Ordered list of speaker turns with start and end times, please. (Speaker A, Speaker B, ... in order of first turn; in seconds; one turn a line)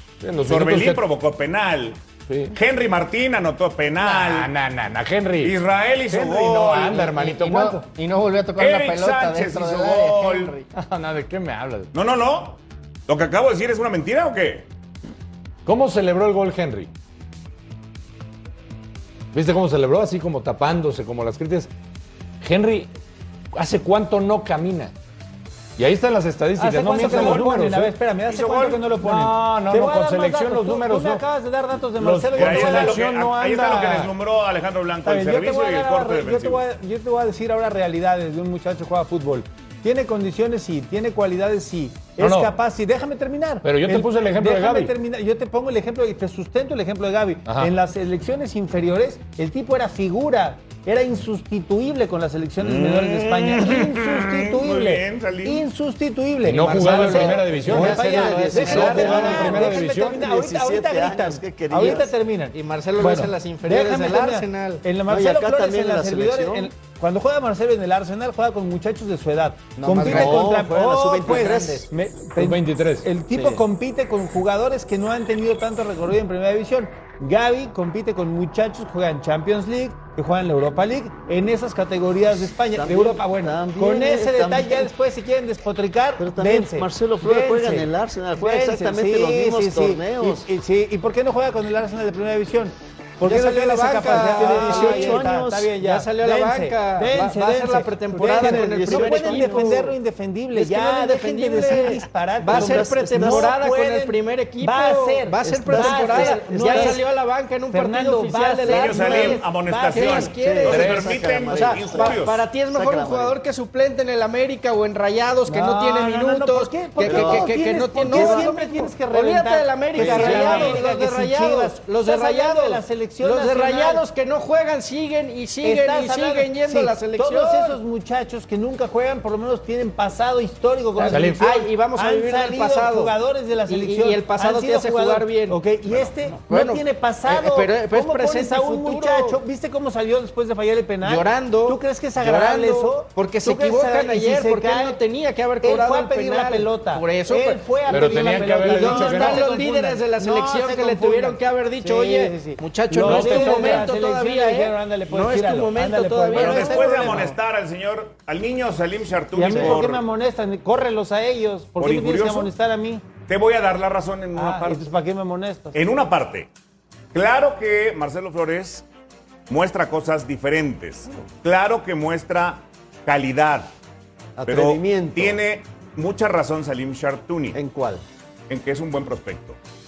Speaker A: 0.2-1.0
Speaker B: 0.5-2.0
Speaker A: 2.3-2.6
Speaker B: 2.5-4.5
Speaker A: 4.0-5.6
Speaker B: 5.4-7.1
Speaker A: 6.1-7.8
Speaker C: 7.1-10.7
Speaker B: 8.6-10.5
Speaker A: 10.7-11.9
Speaker B: 11.9-14.7
Speaker A: 15.7-16.9
Speaker A: 19.3-21.7
Speaker A: 22.4-22.9
Speaker A: 23.5-24.9
Speaker A: 25.8-27.9
Speaker D: 26.6-33.0
Speaker B: 27.0-27.5
Speaker B: 28.2-28.8
Speaker A: 29.0-31.2
Speaker A: 32.0-34.1
Speaker B: 32.3-36.6
Speaker D: 35.0-107.1
Speaker A: 42.2-42.5
Speaker A: 43.6-44.9
Speaker A: 47.4-47.7
Speaker B: 52.6-55.7
Speaker A: 56.4-58.0
Speaker C: 56.6-59.7
Speaker E: 57.6-62.1
Speaker A: 58.6-60.2
Speaker C: 62.5-64.8
Speaker E: 65.1-66.7
Speaker C: 69.8-70.6
Speaker E: 70.0-71.9
Speaker C: 71.3-71.5
Speaker A: 72.4-73.1
Speaker E: 73.3-73.6
Speaker E: 82.7-84.9
Speaker E: 86.2-90.5
Speaker C: 93.2-100.0
Speaker E: 94.1-95.7
Speaker E: 98.3-99.8
Speaker C: 100.5-127.8
Speaker E: 102.4-103.5
Speaker E: 105.4-107.0
Speaker D: 107.7-110.3
Speaker B: 108.7-112.4
Speaker E: 110.3-113.4
Speaker A: 110.7-111.0
Speaker D: 115.5-124.0
Speaker E: 117.0-118.5
Speaker A: 120.0-120.8
Speaker D: 125.6-145.0
Speaker C: 131.0-135.6
Speaker A: 131.0-131.4
Speaker B: 135.9-136.1
Speaker C: 136.5-139.4
Speaker C: 141.0-157.4
Speaker D: 145.6-157.3
Speaker A: 147.9-149.5
Speaker A: 152.9-153.9
Speaker B: 156.3-160.1
Speaker D: 159.3-163.1
Speaker E: 159.5-159.8
Speaker B: 161.8-162.5
Speaker B: 163.3-164.9
Speaker D: 164.3-165.8
Speaker B: 165.7-166.5
Speaker B: 167.1-168.8
Speaker B: 169.5-173.7
Speaker E: 174.4-175.4
Speaker B: 174.5-177.6
Speaker E: 177.5-178.0
Speaker B: 178.5-179.6